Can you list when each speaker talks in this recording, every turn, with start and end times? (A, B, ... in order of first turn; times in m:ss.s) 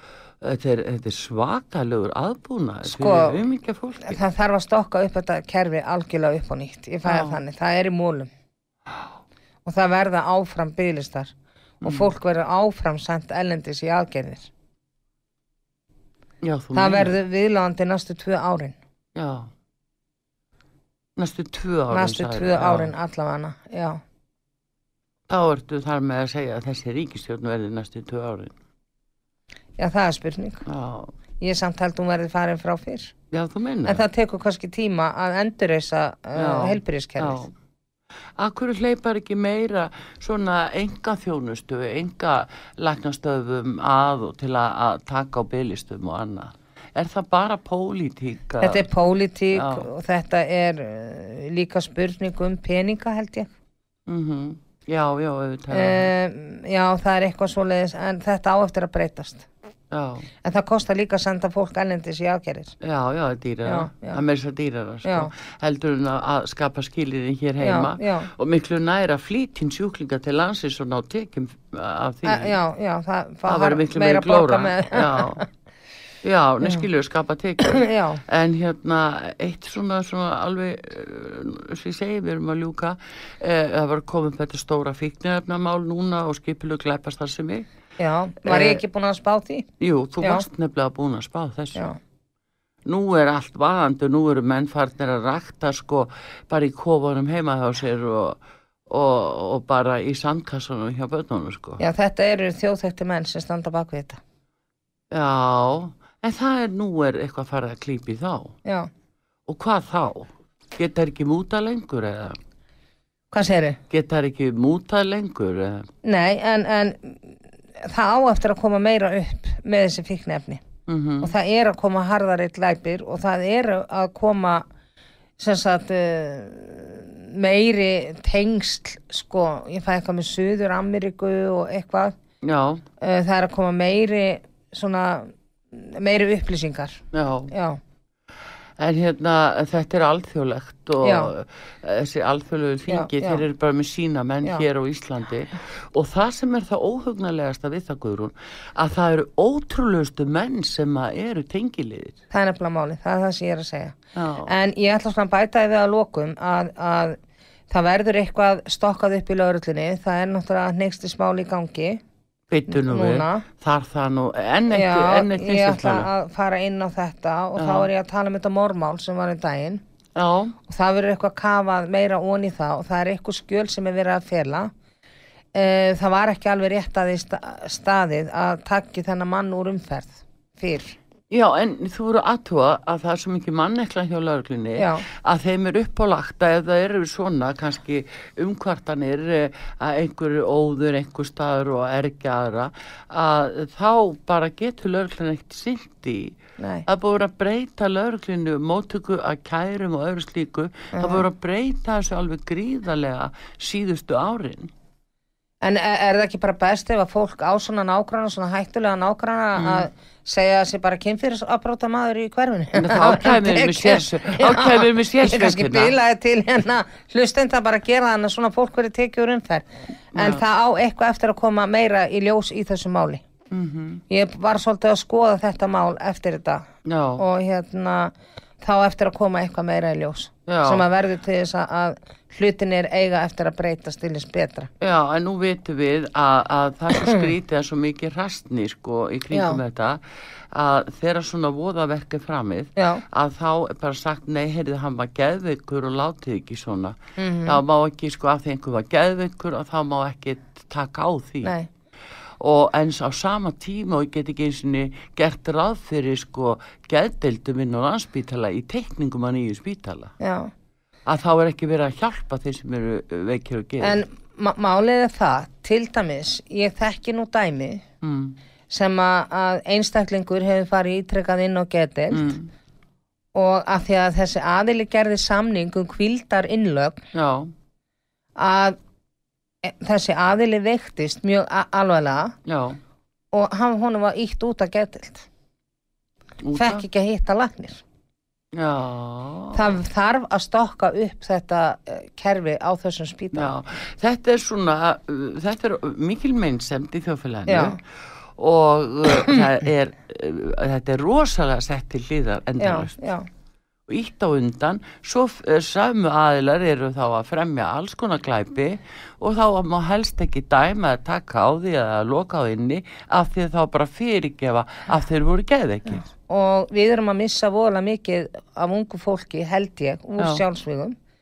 0:00.4-0:04.2 A
0:02.8-0:03.4 B
0:04.0-0:08.3 B
0:07.0-0:07.4 A
0:09.6-0:14.5 B
0:11.8-0:12.1 A
0:16.4-0:17.1 A
0:16.7-0:18.7 B
0:19.1-0:19.5 A
0:21.2-0:22.9 A
0:21.9-0:24.0 B
0:25.3-0:28.5 A
0:29.8-0:30.6 B
0:30.6-0:31.1 A
0:31.4-0:33.1 B
0:33.3-0:34.0 A
0:33.8-0:37.4 B
0:36.4-0:37.5 A
0:38.4-0:48.8 A
0:48.6-0:53.5 B
0:49.5-0:49.9 A
0:54.1-0:56.1 A
0:55.7-0:59.4 B
0:59.9-1:00.3 A
1:00.4-1:02.7 B
1:02.8-1:12.6 A
1:03.6-1:04.2 B
1:05.0-1:05.3 B
1:07.6-1:08.3 B
1:12.2-1:15.4 B
1:13.4-1:15.4 A
1:16.2-1:27.7 A
1:17.7-1:18.2 B
1:28.0-1:29.7 B
1:28.4-1:28.8 A
1:29.8-1:31.9 A
1:30.2-1:30.4 B
1:32.8-1:41.8 A
1:41.8-1:44.2 B
1:45.1-1:48.5 A
1:48.6-1:48.9 B
1:49.5-1:52.4 A
1:53.3-1:53.8 B
1:53.9-1:55.9 A
1:56.0-2:00.6 B
2:00.9-2:01.4 A
2:01.2-2:04.6 B
2:05.4-2:12.1 B
2:12.4-2:12.8 A
2:13.0-2:17.8 B
2:17.1-2:17.5 A
2:18.8-2:32.2 A
2:21.0-2:21.3 B
2:22.9-2:23.4 B
2:32.3-2:37.2 B
2:34.1-2:34.5 A
2:37.7-2:42.0 B
2:42.5-2:46.1 A
2:42.7-2:43.4 B
2:44.7-2:49.8 B
2:47.6-2:47.9 A
2:50.2-2:50.5 A
2:50.7-2:54.7 B
2:55.5-3:00.9 B
3:01.3-3:24.7 A
3:04.8-3:05.0 B
3:16.6-3:16.8 B
3:20.9-3:21.2 B
3:25.6-3:43.2 B
3:29.6-3:29.9 A
3:32.7-3:36.0 A
3:40.1-3:40.4 A
3:43.5-3:44.0 A
3:44.1-3:46.6 B
3:46.8-3:47.2 A
3:47.2-3:54.7 B
3:50.5-3:50.8 A
3:54.8-4:11.5 A
3:59.3-3:59.6 B
4:02.8-4:03.0 B
4:07.2-4:07.6 B
4:11.4-4:11.7 B
4:12.4-4:20.1 A
4:20.2-4:20.5 B
4:21.0-4:24.0 A
4:23.8-4:27.8 B
4:28.0-4:28.4 A
4:28.7-4:32.3 B
4:32.1-4:32.5 A
4:33.3-4:37.0 B
4:37.1-4:37.5 A
4:38.4-4:38.8 B
4:39.6-4:42.4 B
4:42.4-4:42.8 A
4:43.3-4:45.3 B
4:46.4-4:46.8 A
4:46.6-4:47.8 B
4:48.5-4:49.7 A
4:49.5-4:53.5 B
4:53.3-4:57.8 A
4:57.5-4:57.8 B
4:58.4-5:03.1 A
5:02.6-5:03.3 B
5:03.9-5:16.0 A
5:16.3-5:21.0 B
5:20.2-5:20.4 A